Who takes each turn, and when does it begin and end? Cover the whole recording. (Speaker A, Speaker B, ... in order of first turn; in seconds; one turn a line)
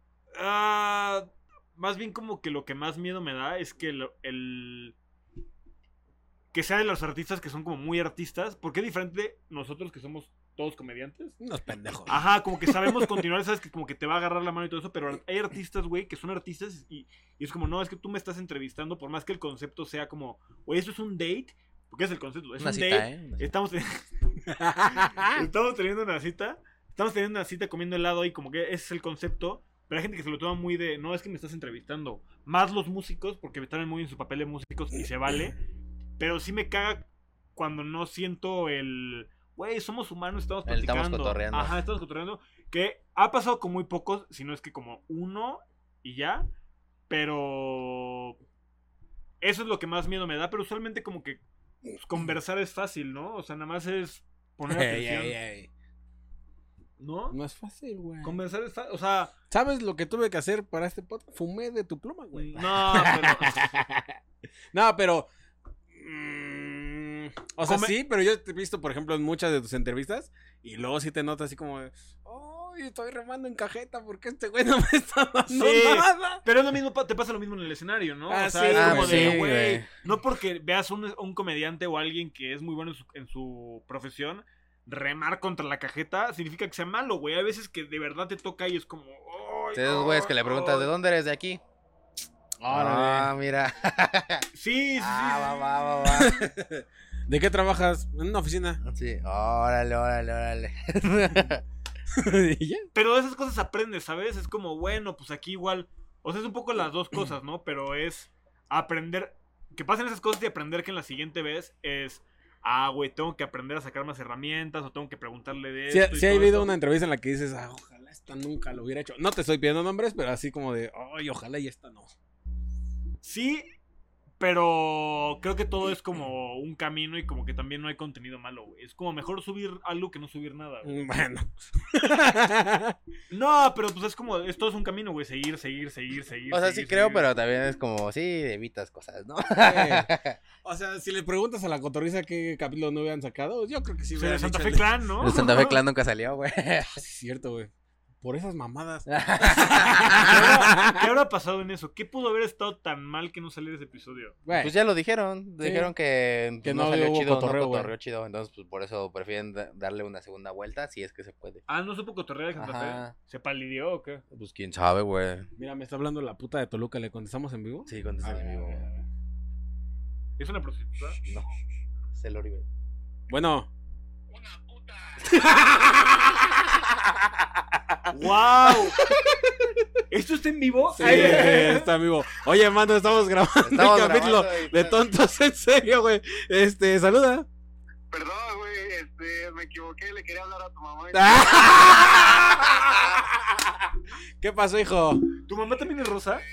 Speaker A: 0.3-4.9
Speaker A: 6.5-11.4
Speaker B: 11.4-13.2
Speaker A: 12.1-24.1
Speaker C: 22.6-23.5
Speaker B: 24.5-25.4
Speaker A: 24.9-35.6
Speaker A: 36.2-46.5
Speaker C: 40.6-41.8
Speaker A: 47.1-48.4
Speaker A: 49.4-51.4
Speaker A: 52.0-55.4
Speaker B: 54.7-55.7
Speaker A: 57.0-57.4
Speaker B: 57.3-58.4
Speaker A: 58.2-59.3
Speaker B: 59.5-64.2
Speaker A: 62.3-63.7
Speaker B: 64.7-65.3
Speaker B: 65.9-76.4
Speaker A: 67.6-68.0
Speaker A: 75.5-90.9
Speaker B: 78.3-79.5
Speaker C: 78.7-79.9
Speaker C: 89.7-91.6
Speaker B: 92.6-93.3
Speaker C: 92.7-96.6
Speaker A: 94.5-96.0
Speaker B: 96.1-96.5
Speaker B: 97.3-98.8
Speaker C: 98.8-101.6
Speaker B: 102.1-102.9
Speaker A: 102.9-116.7
Speaker B: 115.9-122.1
Speaker A: 123.2-123.7
Speaker A: 124.4-131.0
Speaker B: 130.8-132.9
Speaker A: 133.3-137.3
Speaker C: 136.5-140.4
Speaker B: 139.5-140.1
Speaker B: 140.6-145.0
Speaker A: 144.1-145.8
Speaker C: 145.2-147.0
Speaker B: 146.9-147.7
Speaker B: 148.2-151.0
Speaker C: 149.1-150.2
Speaker A: 150.2-154.4
Speaker B: 154.4-154.7
Speaker C: 154.5-161.6
Speaker B: 155.6-155.9
Speaker B: 156.6-157.9
Speaker A: 161.7-164.2
Speaker C: 162.6-163.1
Speaker C: 164.3-165.5
Speaker B: 165.6-168.7
Speaker C: 167.9-168.9
Speaker A: 170.4-171.2
Speaker C: 172.1-172.6
Speaker B: 173.3-173.7
Speaker D: 174.3-175.4
Speaker B: 175.3-176.6
Speaker B: 177.2-178.1
Speaker A: 178.1-179.0
Speaker A: 180.1-181.9
Speaker B: 181.0-187.5
Speaker C: 181.1-181.5
Speaker C: 183.6-185.0
Speaker D: 188.1-193.3
Speaker B: 191.1-195.3
Speaker A: 195.4-196.4